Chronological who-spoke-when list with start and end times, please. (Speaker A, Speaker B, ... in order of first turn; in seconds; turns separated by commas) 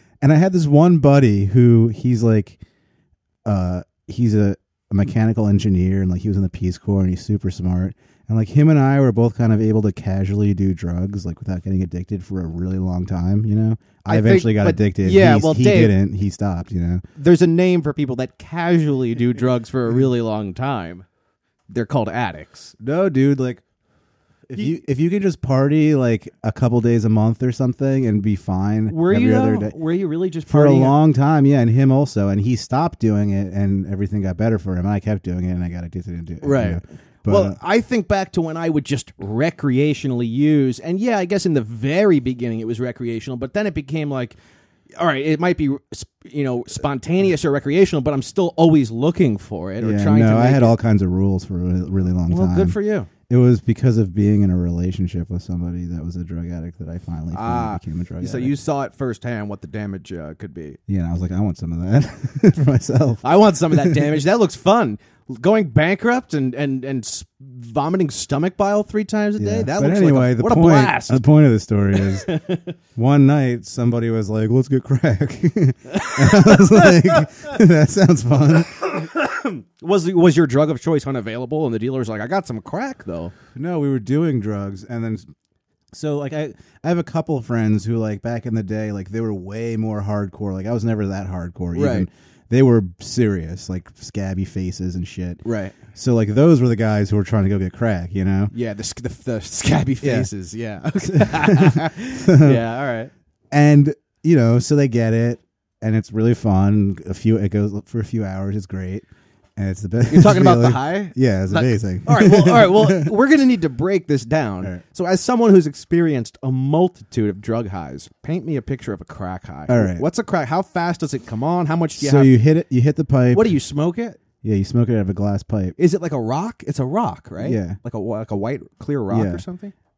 Speaker A: 0.2-2.6, Speaker A: 3.4-17.0, Speaker B: 14.0-16.0, Speaker B: 17.1-21.1, Speaker B: 21.7-22.7, Speaker A: 22.8-23.6, Speaker A: 24.5-29.8, Speaker B: 28.9-31.0, Speaker A: 30.5-37.6, Speaker B: 36.4-44.4, Speaker B: 45.0-50.8, Speaker A: 49.8-52.8, Speaker B: 52.3-53.1, Speaker A: 53.3-58.5, Speaker B: 57.3-60.8, Speaker A: 60.9-64.1, Speaker B: 63.2-71.2, Speaker A: 69.4-72.3, Speaker B: 72.0-72.7, Speaker A: 73.0-78.9, Speaker B: 75.9-77.2, Speaker B: 78.7-83.3, Speaker A: 83.5-85.3, Speaker A: 85.9-98.5, Speaker B: 91.7-92.1, Speaker B: 95.4-95.8, Speaker B: 98.5-103.1, Speaker A: 100.0-100.3, Speaker A: 101.0-102.6, Speaker A: 103.5-109.0, Speaker A: 109.6-113.1, Speaker B: 110.1-122.3, Speaker A: 119.7-120.0, Speaker A: 122.0-123.6, Speaker B: 123.3-124.2, Speaker A: 124.4-125.8, Speaker B: 125.8-129.7, Speaker A: 127.4-127.8, Speaker A: 129.1-129.4